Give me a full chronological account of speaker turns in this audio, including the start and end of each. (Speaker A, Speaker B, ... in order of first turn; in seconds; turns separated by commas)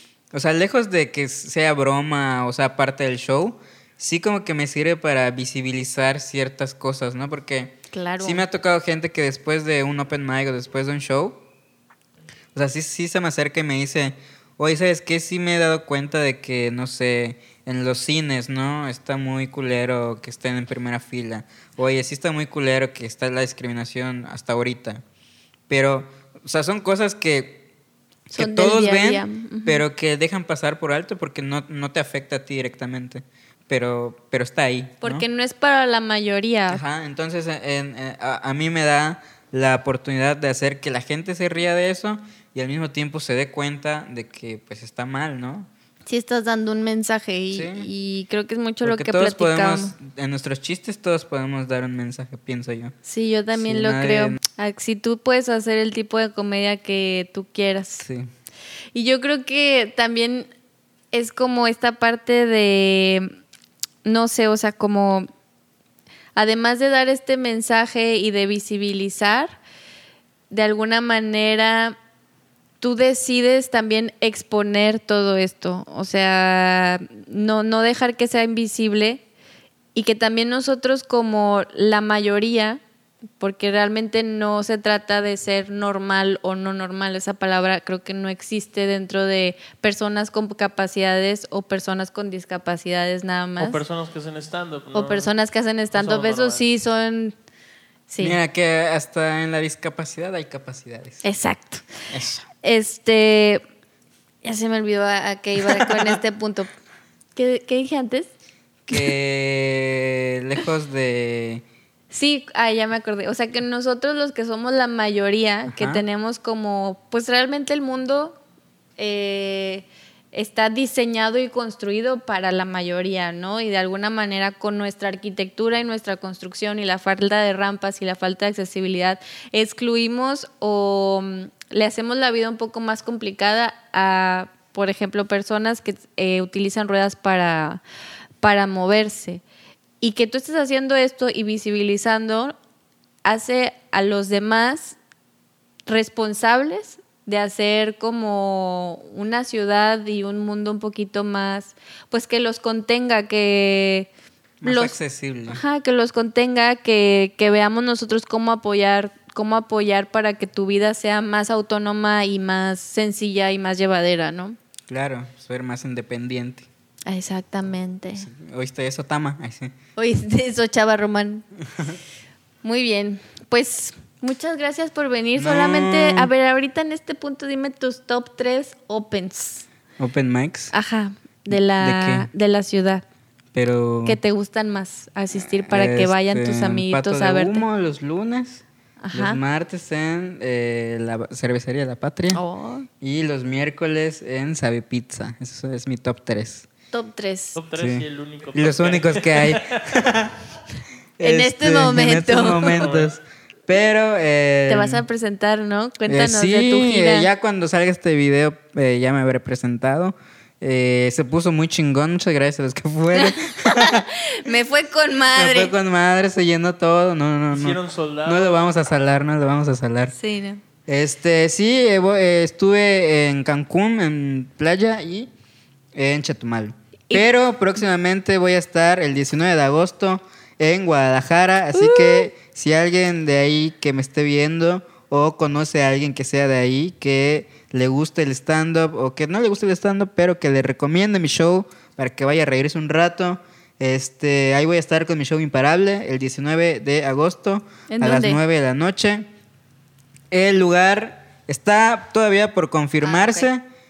Speaker A: 0.3-11.4, Speaker B: 7.9-8.4, Speaker A: 12.6-25.0, Speaker A: 25.7-27.6, Speaker A: 28.3-35.3, Speaker B: 28.4-29.8, Speaker B: 35.0-36.8, Speaker A: 36.7-45.7, Speaker B: 46.1-50.0, Speaker A: 47.5-47.9, Speaker A: 48.8-53.0, Speaker B: 53.0-58.0, Speaker A: 53.5-54.4, Speaker A: 58.0-58.3, Speaker B: 58.9-60.5, Speaker B: 61.1-63.3, Speaker B: 64.0-65.3, Speaker B: 66.3-69.6, Speaker B: 70.5-72.0, Speaker B: 72.8-79.2, Speaker B: 80.0-82.8, Speaker B: 83.4-93.8, Speaker C: 93.6-95.3, Speaker B: 94.9-97.3, Speaker C: 95.9-96.7, Speaker B: 98.1-98.4, Speaker A: 98.2-101.2, Speaker B: 101.2-101.9, Speaker A: 102.1-102.5, Speaker B: 102.6-103.6, Speaker B: 104.4-106.7, Speaker A: 105.6-106.2, Speaker B: 107.4-108.3, Speaker A: 108.9-111.6, Speaker B: 112.1-118.4, Speaker A: 115.7-116.0, Speaker B: 119.0-137.8, Speaker B: 138.4-139.4, Speaker B: 140.0-142.6, Speaker B: 143.2-145.0, Speaker B: 145.9-154.1, Speaker A: 154.6-155.6, Speaker B: 154.6-155.0, Speaker B: 155.5-164.6, Speaker A: 164.9-166.7, Speaker B: 167.1-168.3, Speaker A: 168.2-169.7, Speaker B: 170.0-171.4, Speaker B: 172.6-179.7, Speaker A: 175.4-176.3, Speaker A: 180.0-180.7, Speaker B: 180.7-183.0, Speaker A: 181.5-182.3, Speaker A: 183.5-184.2, Speaker B: 184.0-187.7, Speaker A: 185.5-192.4, Speaker B: 189.0-189.4, Speaker B: 192.3-192.9, Speaker A: 193.0-196.7, Speaker B: 196.9-197.6, Speaker C: 197.6-199.9, Speaker A: 197.8-200.4, Speaker A: 201.2-205.0, Speaker B: 201.2-202.9, Speaker C: 202.6-203.1, Speaker B: 204.7-207.3, Speaker A: 206.1-214.1, Speaker B: 213.1-215.7, Speaker A: 215.3-220.1, Speaker C: 217.5-218.6, Speaker B: 220.1-220.6, Speaker A: 220.9-225.3, Speaker A: 225.9-249.3, Speaker B: 231.7-232.3, Speaker B: 247.9-248.4, Speaker A: 250.3-253.6, Speaker B: 253.0-253.5